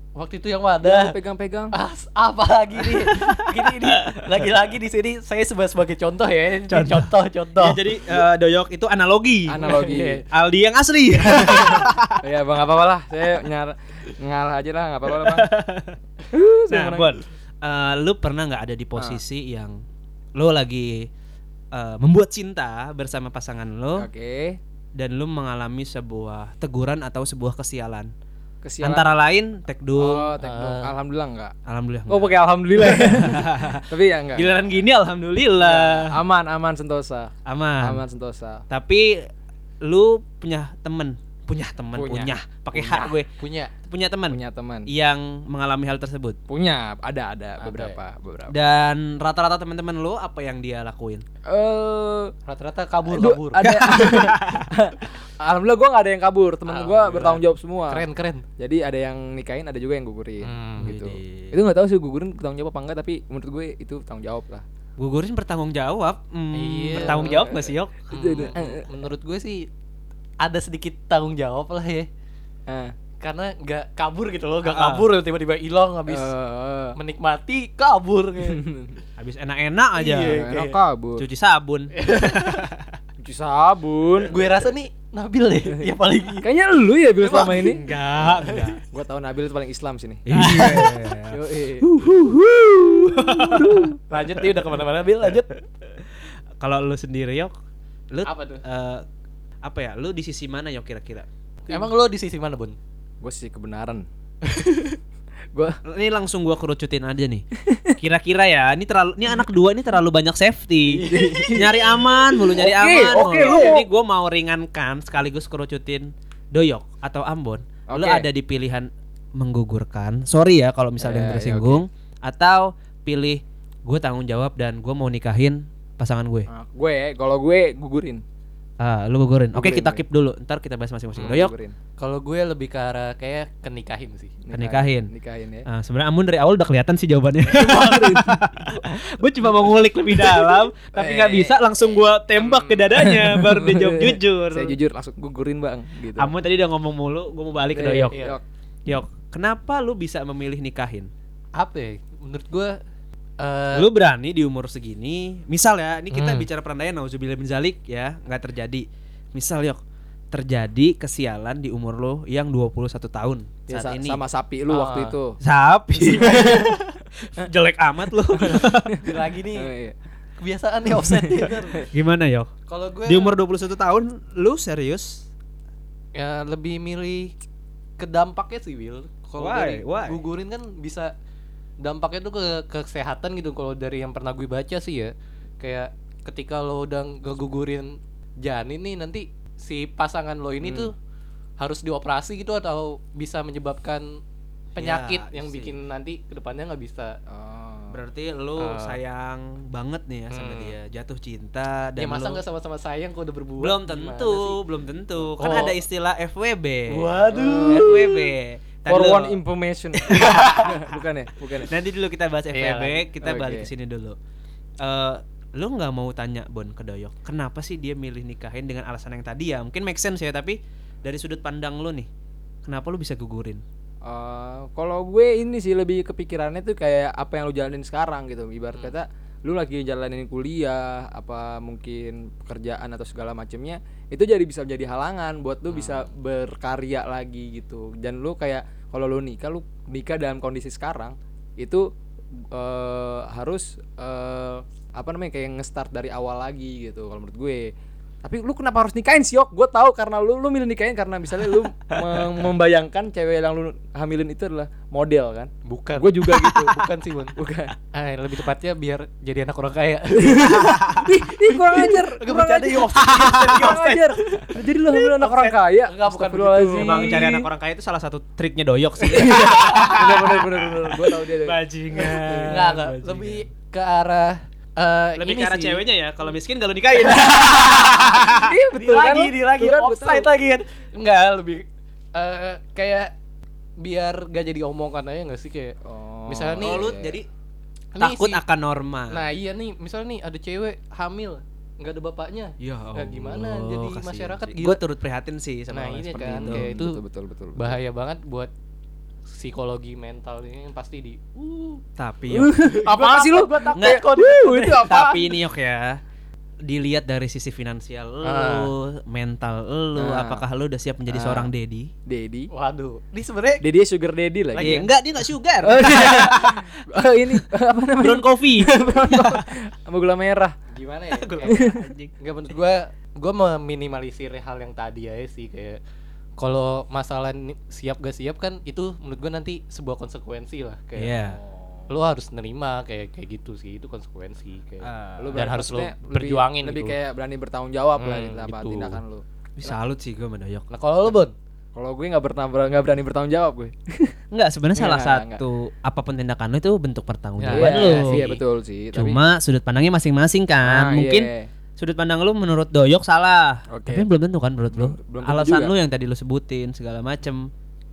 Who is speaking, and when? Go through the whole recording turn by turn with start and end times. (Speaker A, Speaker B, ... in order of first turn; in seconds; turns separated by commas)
Speaker A: 0.2-1.1, Speaker B: 0.8-1.7, Speaker A: 1.7-7.8, Speaker C: 3.1-4.2, Speaker C: 6.7-12.2, Speaker B: 9.5-10.2, Speaker A: 9.6-10.2, Speaker B: 11.2-15.5, Speaker C: 15.1-15.9, Speaker B: 16.3-17.2, Speaker C: 16.7-19.8, Speaker B: 18.9-19.2, Speaker C: 20.4-21.1, Speaker C: 21.7-24.1, Speaker B: 23.9-24.6, Speaker C: 24.9-28.1, Speaker B: 28.6-29.1, Speaker C: 28.8-30.4, Speaker B: 29.9-31.5, Speaker A: 30.4-30.9, Speaker C: 31.7-36.2, Speaker B: 32.1-34.5, Speaker A: 35.7-36.0, Speaker B: 36.0-38.6, Speaker C: 37.5-38.0, Speaker C: 38.7-39.2, Speaker C: 39.8-43.3, Speaker B: 41.9-43.1, Speaker A: 42.8-43.7, Speaker C: 43.9-46.4, Speaker B: 44.3-44.9, Speaker B: 46.5-48.5, Speaker A: 47.6-48.0, Speaker C: 48.5-51.2, Speaker B: 51.5-52.3, Speaker A: 52.5-53.7, Speaker B: 53.1-58.0, Speaker C: 53.6-54.7, Speaker A: 56.7-58.4, Speaker B: 58.6-64.6, Speaker A: 60.4-60.9, Speaker C: 60.8-61.5, Speaker C: 65.0-68.4, Speaker A: 66.5-67.4, Speaker B: 66.9-68.8, Speaker A: 68.1-69.7, Speaker A: 70.4-72.1, Speaker B: 72.7-72.9, Speaker A: 73.2-76.3, Speaker C: 74.7-75.0, Speaker B: 76.1-77.0, Speaker A: 77.0-78.6, Speaker B: 78.4-79.0, Speaker C: 79.2-80.4, Speaker A: 79.9-80.8, Speaker B: 80.3-81.2, Speaker C: 81.2-82.8, Speaker A: 81.9-82.7, Speaker B: 83.2-84.4, Speaker A: 84.2-86.5, Speaker B: 86.4-87.8, Speaker A: 87.2-88.8, Speaker C: 87.6-88.8, Speaker B: 88.9-94.0, Speaker C: 90.3-92.3, Speaker A: 90.4-90.9, Speaker C: 93.0-93.9, Speaker A: 94.1-95.6, Speaker C: 96.6-97.5, Speaker C: 98.1-99.0, Speaker A: 98.2-98.6, Speaker C: 99.6-101.2, Speaker A: 101.7-102.8, Speaker B: 103.2-104.0, Speaker A: 104.5-104.9, Speaker B: 105.5-105.8, Speaker C: 105.8-107.4, Speaker B: 107.6-108.0, Speaker C: 108.0-126.5, Speaker A: 110.9-111.7, Speaker B: 111.1-111.8, Speaker B: 112.5-113.9, Speaker A: 113.2-113.7, Speaker B: 117.9-118.3, Speaker B: 121.0-121.8, Speaker B: 126.5-128.2, Speaker C: 128.8-131.5, Speaker B: 129.5-130.0, Speaker B: 131.2-131.8, Speaker A: 132.0-134.3, Speaker B: 134.4-135.7, Speaker C: 134.5-135.1, Speaker C: 135.7-144.8, Speaker B: 137.4-138.9, Speaker B: 140.1-141.6, Speaker A: 142.4-142.9, Speaker B: 142.9-146.3, Speaker C: 146.2-148.1, Speaker B: 147.7-148.4, Speaker A: 148.1-148.4, Speaker C: 148.8-151.1, Speaker A: 151.6-152.8, Speaker A: 153.4-153.9, Speaker C: 153.7-159.8, Speaker A: 156.1-156.5, Speaker C: 160.3-164.2, Speaker B: 163.7-165.4, Speaker A: 164.7-165.2, Speaker C: 165.4-169.0, Speaker B: 166.1-166.7, Speaker B: 168.4-169.9, Speaker A: 169.0-169.7, Speaker A: 170.4-171.8, Speaker B: 171.4-171.8, Speaker C: 171.9-172.5, Speaker A: 172.7-173.3, Speaker C: 173.1-175.2, Speaker A: 176.1-177.3, Speaker A: 178.0-181.1, Speaker C: 179.4-180.2, Speaker A: 181.8-190.9, Speaker A: 191.6-194.0, Speaker A: 194.8-197.2, Speaker C: 194.8-195.7, Speaker B: 197.3-198.0, Speaker C: 197.9-202.4, Speaker A: 198.6-199.0, Speaker A: 200.3-200.7, Speaker A: 202.0-204.6, Speaker C: 203.6-207.1, Speaker A: 205.4-205.8, Speaker A: 206.9-208.2, Speaker B: 207.3-208.1, Speaker C: 207.7-209.4, Speaker B: 208.8-211.7, Speaker C: 210.0-210.8, Speaker A: 210.1-210.6, Speaker C: 211.7-214.2, Speaker A: 212.5-213.0, Speaker B: 213.2-213.7, Speaker C: 214.8-222.1, Speaker C: 222.6-223.6, Speaker B: 224.0-241.8, Speaker A: 235.7-236.1, Speaker B: 242.5-247.7, Speaker B: 248.2-257.7, Speaker A: 255.7-257.4, Speaker A: 257.9-264.6, Speaker B: 260.2-267.5, Speaker C: 260.6-261.1, Speaker C: 262.9-263.7, Speaker A: 265.2-267.2, Speaker C: 266.8-273.4, Speaker B: 269.1-272.7, Speaker A: 269.1-270.0, Speaker A: 272.5-275.8, Speaker C: 275.2-278.5, Speaker A: 277.2-283.1, Speaker B: 278.3-280.3, Speaker A: 283.8-285.8, Speaker B: 285.8-287.2, Speaker A: 286.3-286.9, Speaker C: 286.6-287.3, Speaker A: 287.9-288.4, Speaker C: 288.0-289.2, Speaker A: 289.1-294.8, Speaker C: 292.6-296.7, Speaker A: 295.7-297.0, Speaker B: 296.2-297.8, Speaker A: 297.6-298.5, Speaker A: 299.3-301.8, Speaker C: 302.0-302.5, Speaker B: 302.3-305.3, Speaker A: 302.6-305.1, Speaker C: 303.8-304.0, Speaker C: 304.9-306.0, Speaker C: 306.6-311.9, Speaker A: 308.2-308.7, Speaker B: 309.9-310.4, Speaker B: 311.1-311.5, Speaker B: 312.1-312.5, Speaker A: 312.5-313.6, Speaker B: 313.6-314.9, Speaker A: 314.5-314.9, Speaker C: 314.6-316.7, Speaker B: 315.6-320.5, Speaker C: 318.0-319.4, Speaker A: 320.7-321.6, Speaker C: 321.1-322.1, Speaker B: 321.5-321.9, Speaker A: 322.2-325.8, Speaker A: 326.4-331.2, Speaker C: 331.0-331.4, Speaker B: 331.3-331.9, Speaker A: 331.9-336.9, Speaker C: 334.8-335.4, Speaker B: 335.2-339.7, Speaker A: 338.0-339.0, Speaker C: 339.6-340.7, Speaker A: 340.7-341.3, Speaker B: 341.7-344.1, Speaker C: 344.3-348.3, Speaker B: 344.8-345.4, Speaker A: 347.4-348.4, Speaker B: 347.5-349.2, Speaker C: 348.9-357.5, Speaker B: 350.6-351.5, Speaker B: 353.7-354.1, Speaker B: 354.7-355.7